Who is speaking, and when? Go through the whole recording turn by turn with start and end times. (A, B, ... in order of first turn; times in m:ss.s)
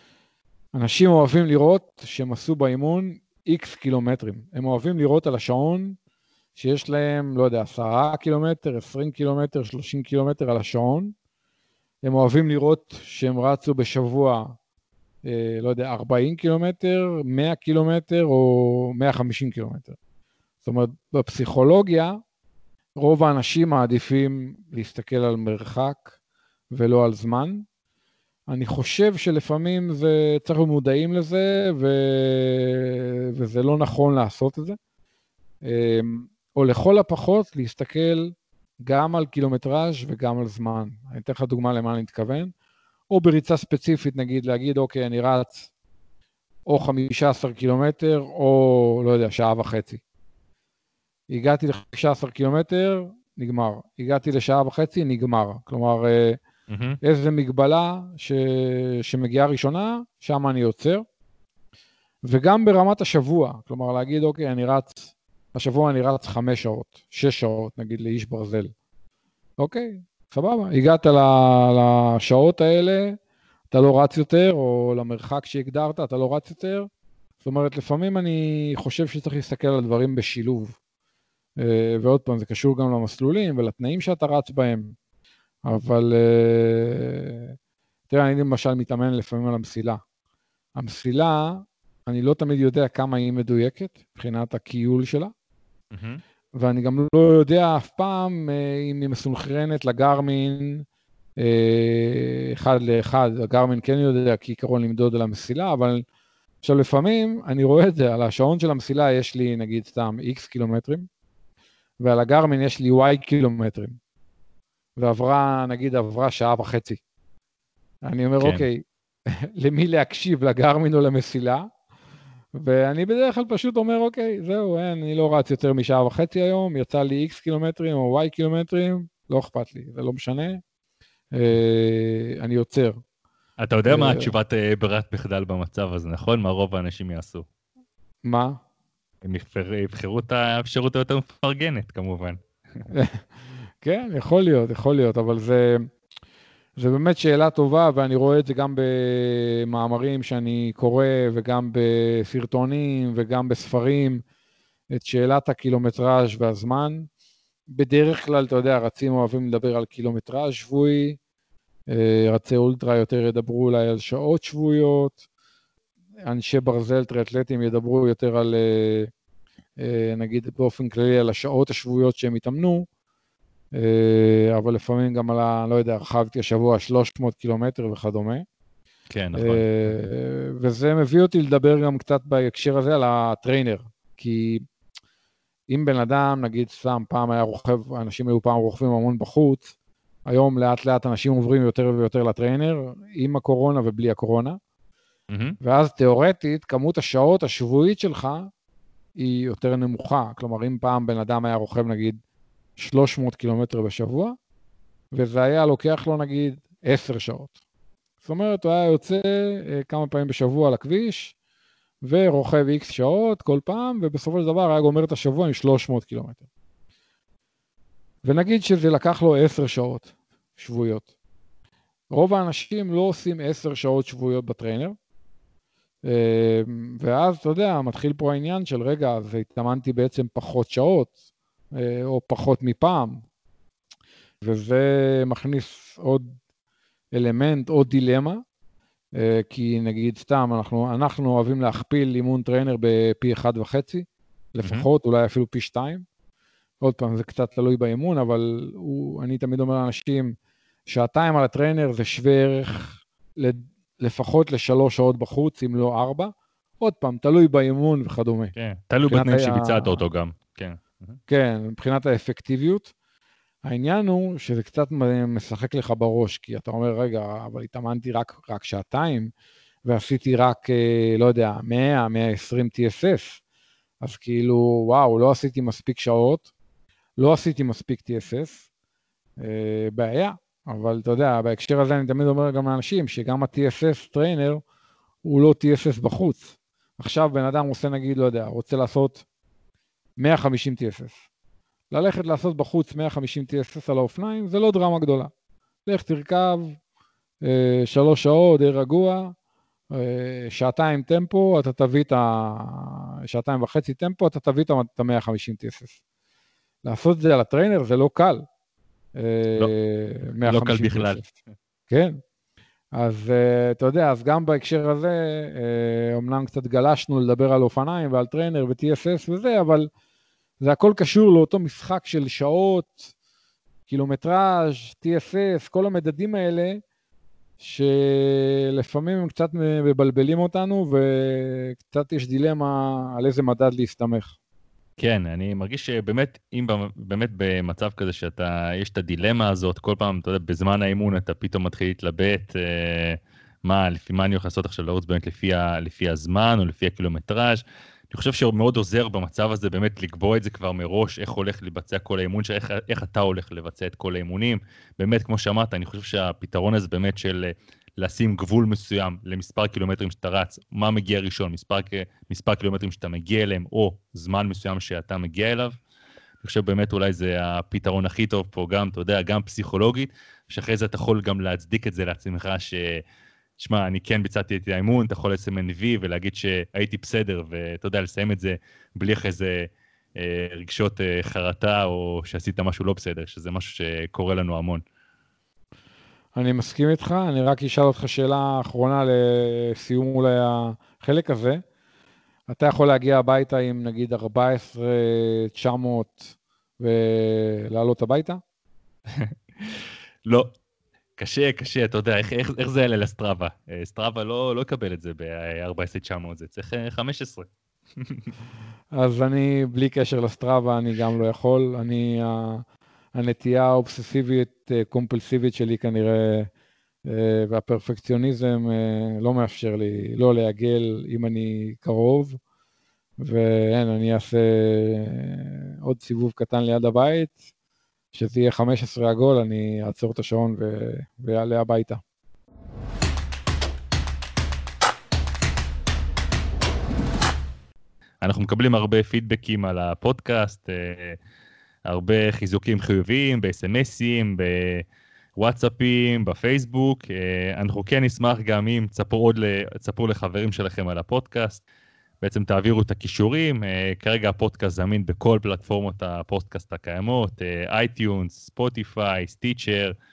0:00.7-0:06.0 A
0:06.6-0:11.1 A
0:12.0-0:14.6 A
0:15.2-0:20.0 A
0:20.6-0:22.2 A
0:23.0-0:26.1 A
0:26.7-0:27.6 A
0:28.5-0:34.8 A
0:35.6-0:42.5 A
0:43.1-0:45.7 A
0:46.7-0:50.0 A
0:51.3-0:56.4 A
0:56.7-0:57.0 B
0:57.0-1:01.0 A
1:02.2-1:08.7 A
1:09.6-1:13.2 A
1:13.7-1:16.9 A
1:17.4-1:20.8 A
1:21.6-1:24.9 A
1:25.6-1:27.6 A
1:28.1-1:30.0 A
1:30.8-1:35.3 A
1:35.9-1:36.2 B
1:36.6-1:40.8 A
1:41.4-1:46.0 A
1:46.6-1:51.1 A
1:52.0-1:54.0 A
1:55.0-1:57.0 A
1:58.0-2:01.7 A
1:58.4-1:58.7 B
2:02.6-2:10.6 A
2:11.3-2:13.0 A
2:13.6-2:17.5 B
2:13.9-2:14.3 A
2:18.2-2:18.6 A
2:19.2-2:22.4 B
2:22.9-2:23.2 A
2:23.8-2:25.9 A
2:26.8-2:34.2 A
2:34.9-2:37.1 A
2:37.7-2:41.2 A
2:41.9-2:45.2 A
2:46.3-2:49.1 A
2:49.8-2:52.9 A
2:53.7-2:58.4 A
2:59.1-2:59.7 B
2:59.4-3:04.6 A
3:05.7-3:09.7 A
3:10.3-3:14.6 A
3:15.3-3:15.6 B
3:15.6-3:18.5 A
3:19.2-3:22.2 A
3:22.8-3:24.4 A
3:25.1-3:27.5 A
3:28.2-3:31.4 A
3:32.0-3:36.4 A
3:38.2-3:41.1 A
3:42.1-3:45.0 A
3:46.0-3:51.1 A
3:51.7-3:53.2 A
3:54.4-3:56.4 A
3:57.1-3:58.4 A
3:59.2-4:06.0 A
4:04.6-4:04.9 B
4:06.8-4:10.3 A
4:10.9-4:18.5 A
4:18.6-4:21.2 B
4:19.1-4:20.0 A
4:21.3-4:22.9 A
4:23.6-4:29.3 A
4:29.8-4:33.4 A
4:34.0-4:36.5 A
4:37.2-4:38.6 A
4:39.4-4:44.6 A
4:45.2-4:49.2 A
4:50.2-4:51.2 A
4:51.9-4:55.3 A
4:55.9-4:56.8 A
4:57.4-4:59.3 A
4:59.9-5:06.0 A
5:06.8-5:08.5 A
5:09.2-5:11.3 A
5:10.4-5:11.4 B
5:11.9-5:12.2 A
5:12.9-5:19.9 A
5:20.6-5:23.1 A
5:23.9-5:26.8 A
5:27.6-5:34.4 A
5:35.0-6:05.8 B
6:06.4-6:13.0 B
6:13.6-6:24.8 B
6:26.4-6:31.6 A
6:32.5-6:38.4 A
6:39.2-6:40.5 B
6:41.2-6:47.5 B
6:48.0-6:48.3 B
6:48.9-6:56.5 A
6:57.1-7:02.4 A
7:03.2-7:07.4 A
7:08.1-7:12.0 A
7:18.2-7:21.2 B
7:21.9-7:24.8 B
7:25.4-7:31.6 B
7:32.2-7:40.0 B